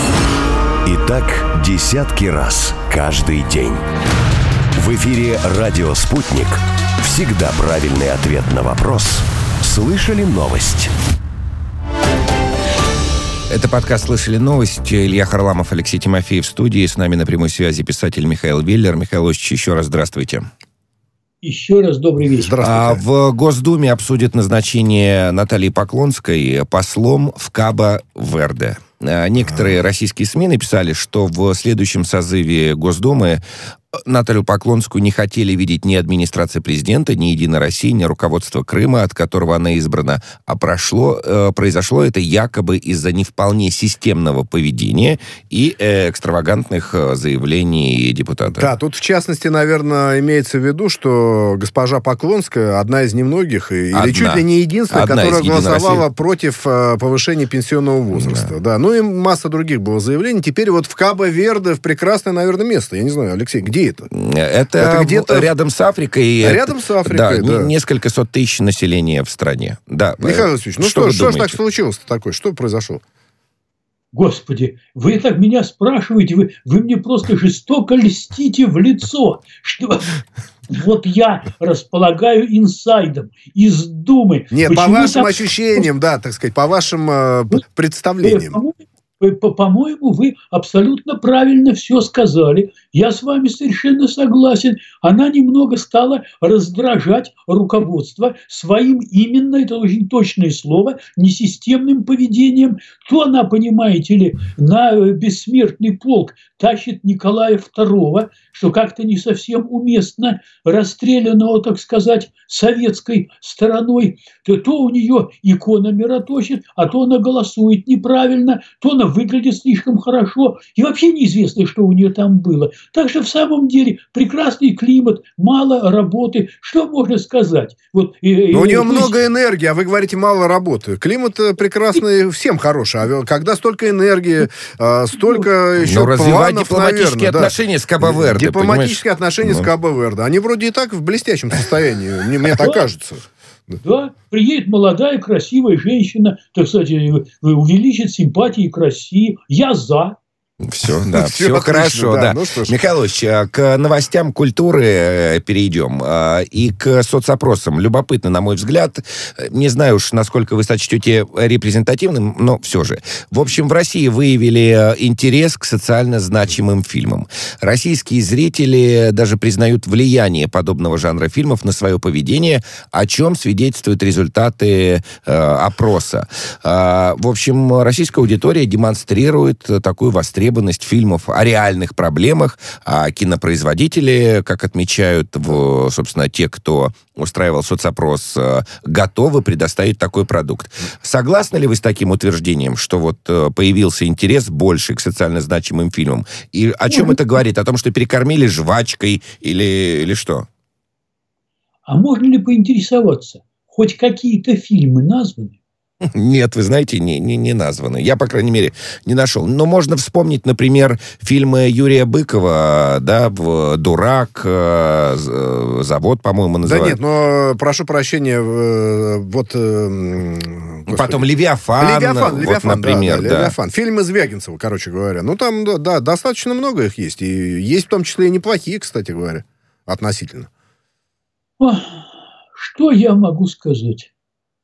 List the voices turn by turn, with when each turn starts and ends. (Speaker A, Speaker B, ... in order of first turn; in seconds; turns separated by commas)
Speaker A: 0.8-3.8, Speaker A: 4.8-10.9, Speaker B: 13.5-20.5, Speaker C: 21.4-22.5, Speaker D: 22.4-23.0, Speaker B: 22.6-33.4, Speaker B: 33.9-48.7, Speaker D: 48.5-64.1, Speaker B: 53.9-56.0, Speaker B: 58.1-58.5, Speaker B: 64.1-71.6, Speaker D: 64.8-65.5, Speaker D: 66.4-67.7, Speaker D: 70.2-73.0, Speaker C: 74.1-80.2, Speaker C: 80.7-85.8, Speaker D: 84.5-88.6, Speaker C: 88.2-129.2, Speaker D: 128.5-143.7, Speaker B: 135.8-139.7, Speaker C: 142.6-142.8, Speaker C: 143.8-150.2, Speaker B: 150.6-200.5, Speaker D: 150.9-152.8, Speaker C: 201.9-205.6, Speaker B: 206.0-217.0, Speaker D: 216.6-221.3, Speaker B: 220.9-223.5, Speaker D: 221.8-230.5, Speaker C: 231.6-232.0, Speaker C: 232.6-234.1